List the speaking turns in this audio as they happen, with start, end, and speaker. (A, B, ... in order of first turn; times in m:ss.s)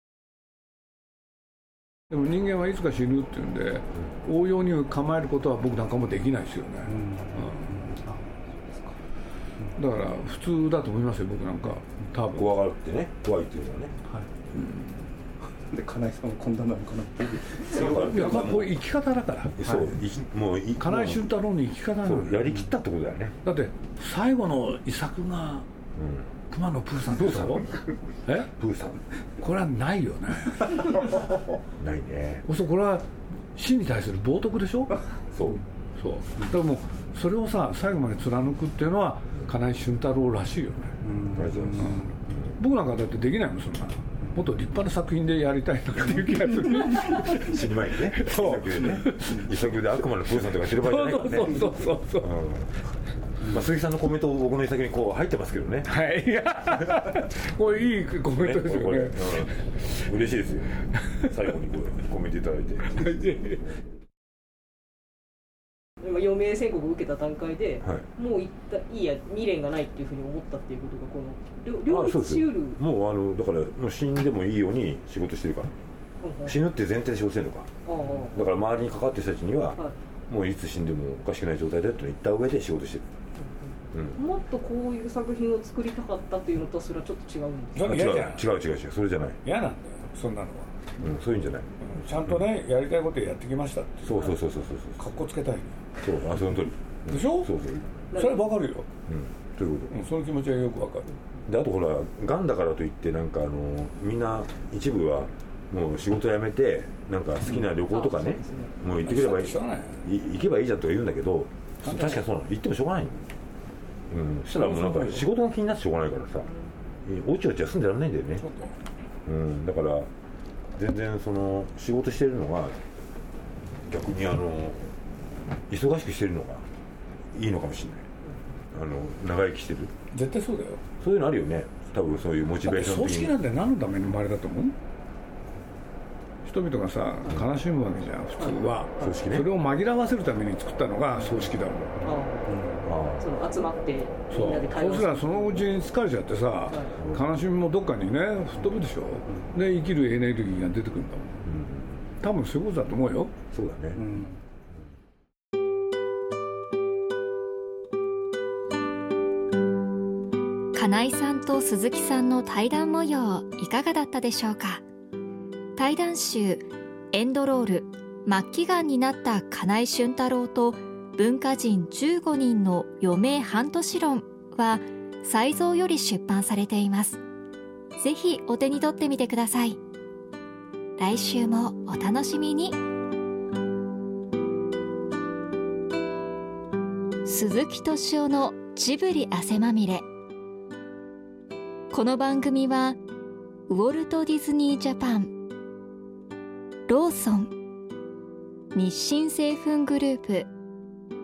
0:02.1-0:08.0 A
0:06.9-0:07.3 B
0:09.8-0:12.5 A
0:12.3-0:14.0 C
0:14.5-0:15.1 A
0:15.7-0:18.0 B
0:17.6-0:18.8 C
0:17.7-0:19.6 A
0:19.6-0:21.3 C
0:20.8-0:22.5 A
0:22.0-0:23.4 C
0:23.4-0:25.7 A
0:26.0-0:26.3 C
0:26.5-0:27.7 A
0:27.1-0:27.8 C
0:28.2-0:28.5 A
0:28.5-0:29.0 C
0:29.4-0:31.1 A
0:31.8-0:32.4 C
0:32.5-0:35.0 A
0:35.3-0:35.6 C
0:36.0-0:41.0 A
0:41.1-0:42.0 B
0:41.3-0:42.0 C
0:42.6-0:49.5 A
0:47.2-0:52.8 C
0:50.6-0:52.3 A
0:53.4-0:55.9 C
0:55.9-1:00.0 A
0:58.4-1:03.5 C
1:02.9-1:03.6 A
1:06.0-1:12.8 D
1:11.9-1:15.7 C
1:16.2-1:16.6 D
1:16.4-1:17.7 C
1:17.9-1:18.4 D
1:18.3-1:23.1 C
1:23.4-1:28.0 D
1:23.9-1:24.2 C
1:27.7-1:28.5 A
1:27.8-1:29.4 C
1:29.4-1:30.9 A
1:31.0-1:31.7 C
1:31.8-1:34.3 A
1:34.0-1:35.0 C
1:35.0-1:35.8 A
1:36.0-1:37.9 C
1:37.1-1:37.5 A
1:38.1-1:38.5 D
1:38.1-1:38.9 A
1:39.1-1:39.9 C
1:39.9-1:41.1 A
1:41.5-1:53.3 C
1:47.7-1:48.8 D
1:48.9-1:50.0 A
1:51.8-1:52.2 A
1:54.1-1:56.5 C
1:54.7-1:55.2 A
1:57.0-1:58.4 C
1:58.4-1:58.8 A
1:59.2-2:00.1 C
2:00.8-2:02.8 C
2:03.8-2:04.9 C
2:05.7-2:06.7 C
2:07.3-2:08.1 C
2:08.7-2:09.9 C
2:10.1-2:10.8 A
2:11.0-2:13.4 C
2:12.6-2:14.8 A
2:16.4-2:22.0 A
2:18.4-2:19.1 D
2:19.0-2:19.5 C
2:22.0-2:25.6 D
2:22.8-2:23.3 C
2:24.3-2:31.4 A
2:31.5-2:32.0 C
2:32.2-2:33.3 A
2:33.5-2:34.1 C
2:34.0-2:34.4 B
2:40.7-2:44.8 E
2:45.8-2:57.2 E
2:58.0-2:59.8 E
3:01.0-3:02.8 E
3:07.2-3:10.0 E
3:11.9-3:13.0 E
3:13.7-3:15.4 E
3:16.9-3:17.5 E
3:18.8-3:20.5 E